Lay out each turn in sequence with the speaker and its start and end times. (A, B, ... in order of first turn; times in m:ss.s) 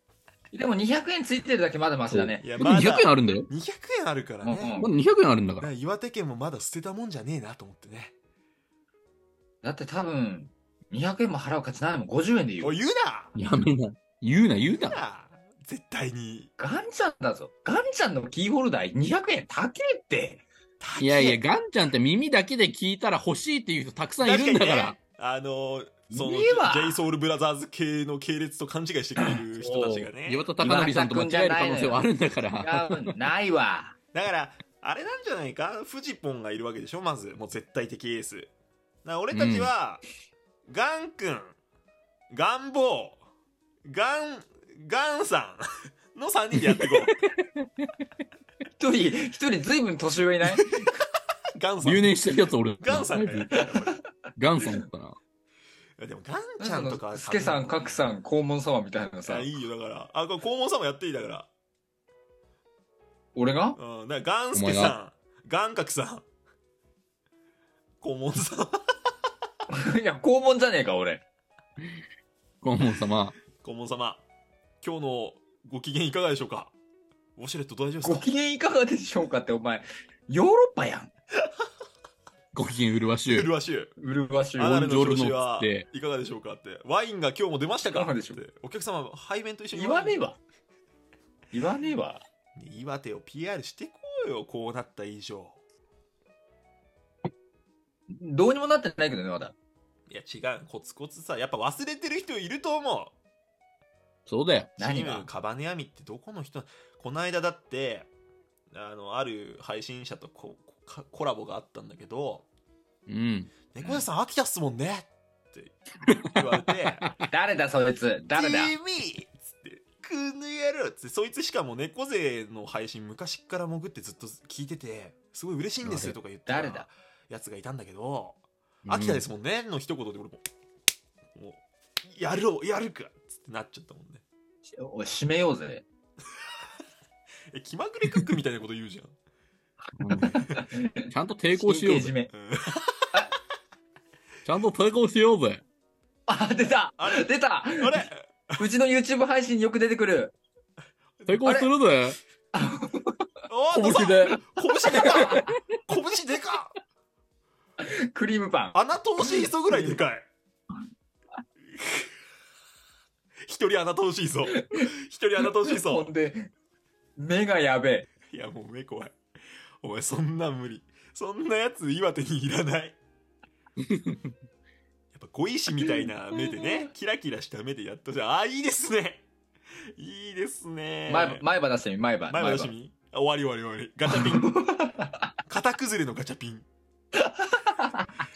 0:00.5-0:02.5 A
0:02.1-0:03.5 B
0:02.4-0:04.9 C
0:04.4-0:04.9 A
0:04.8-0:05.7 B
0:05.6-0:08.2 C
0:09.6-0:12.8 A
0:12.6-0:13.4 C
0:13.4-0:15.0 B
0:14.6-0:16.5 C
0:16.6-0:20.5 A
0:20.8-0:21.4 C
0:21.0-0:25.0 B
0:24.2-0:30.5 C
0:26.1-0:27.0 A
0:29.6-0:33.1 B
0:30.6-0:32.1 A
0:32.6-0:34.0 A
0:34.1-0:38.5 C
0:39.0-0:40.0 C
0:39.3-0:39.7 B
0:40.7-0:41.6 C
0:42.3-0:43.2 C
0:43.9-0:47.1 C
0:46.5-0:47.2 B
0:48.8-0:50.9 A
0:51.6-0:54.0 C
0:51.8-0:53.7 B
0:53.5-0:53.8 A
0:54.4-0:55.2 B
0:56.0-0:58.1 C
0:56.6-0:59.5 A
0:59.2-1:01.5 C
1:03.4-1:03.8 A
1:03.8-1:06.2 C
1:04.5-1:05.0 B
1:08.0-1:08.8 C
1:09.7-1:11.2 A
1:12.6-1:13.4 B
1:13.6-1:14.2 C
1:14.8-1:16.7 C
1:17.4-1:18.3 C
1:18.0-1:21.1 A
1:22.5-1:23.5 B
1:23.3-1:23.9 C
1:24.0-1:24.8 A
1:24.6-1:30.2 C
1:24.6-1:25.9 B
1:27.9-1:28.4 A
1:29.7-1:30.4 A
1:31.5-1:32.2 A
1:32.6-1:35.6 C
1:38.1-1:39.5 A
1:40.1-1:43.2 C
1:44.3-1:44.7 B
1:44.8-1:45.3 A
1:44.8-1:48.1 C
1:48.7-1:52.5 C
1:53.1-1:53.5 B
1:53.7-1:57.1 C
1:56.1-1:57.2 B
1:57.3-1:58.8 A
1:58.4-2:10.4 C
2:05.8-2:06.2 B
2:06.5-2:06.9 A
2:08.9-2:09.2 B
2:11.3-2:14.2 C
2:14.7-2:15.8 A
2:17.5-2:19.2 C
2:20.0-2:20.4 B
2:20.2-2:22.3 A
2:21.1-2:22.1 B
2:22.3-2:23.1 C
2:24.4-2:25.6 B
2:26.3-2:28.0 A
2:27.0-2:28.6 C
2:28.6-2:30.3 A
2:31.2-2:31.4 C
2:31.3-2:32.2 B
2:31.4-2:31.7 A
2:32.5-2:33.3 A
2:33.5-2:36.7 C
2:33.7-2:34.4 B
2:34.9-2:35.4 A
2:35.0-2:35.5 B
2:37.8-2:38.8 A
2:38.7-2:40.3 C
2:41.8-2:42.1 C
2:43.5-2:46.1 C
2:44.5-2:44.9 A
2:45.4-2:46.5 A
2:47.2-2:48.1 A
2:48.3-2:49.2 C
2:49.8-2:53.0 C
2:53.8-2:54.3 B
2:55.1-2:59.3 C
3:00.0-3:01.4 C
3:01.1-3:02.7 A
3:02.3-3:04.6 C
3:04.1-3:05.3 A
3:05.5-3:06.7 C
3:07.2-3:08.1 A